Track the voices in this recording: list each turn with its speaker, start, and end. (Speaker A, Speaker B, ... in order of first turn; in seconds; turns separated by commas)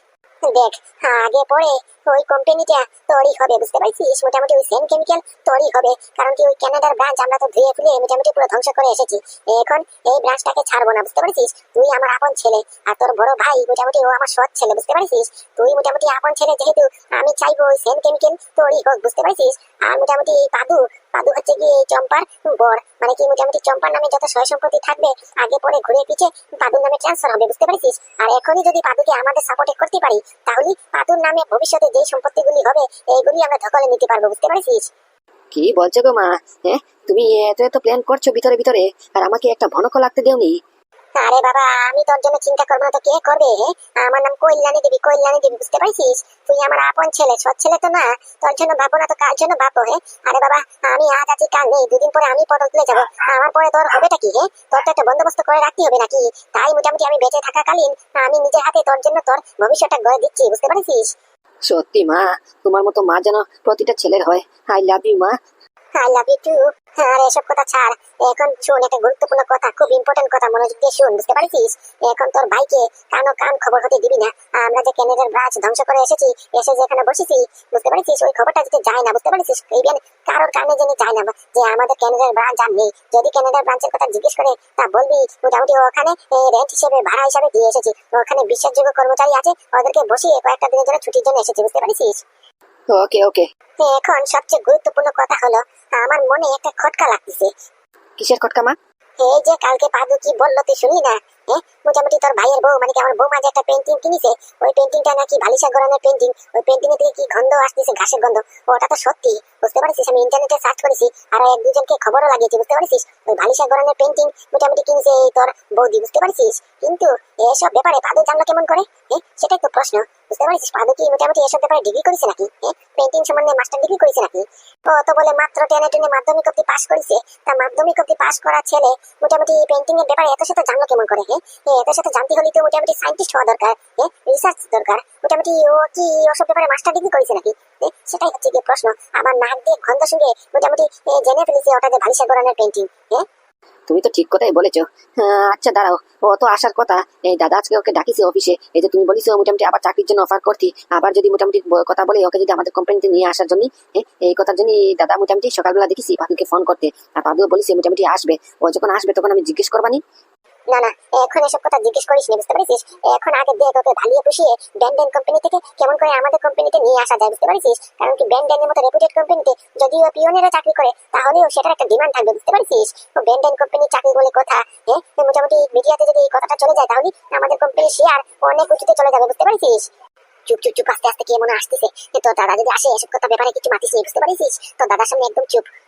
Speaker A: 0.5-34.9, Speaker B: 35.5-40.5, Speaker A: 41.2-61.1, Speaker B: 61.7-65.3, Speaker A: 66.0-92.2, Speaker B: 92.9-93.5, Speaker A: 93.8-97.5, Speaker B: 98.2-98.8, Speaker A: 99.2-143.2, Speaker B: 143.9-160.0, Speaker A: 160.7-179.9, Speaker A: 180.5-185.7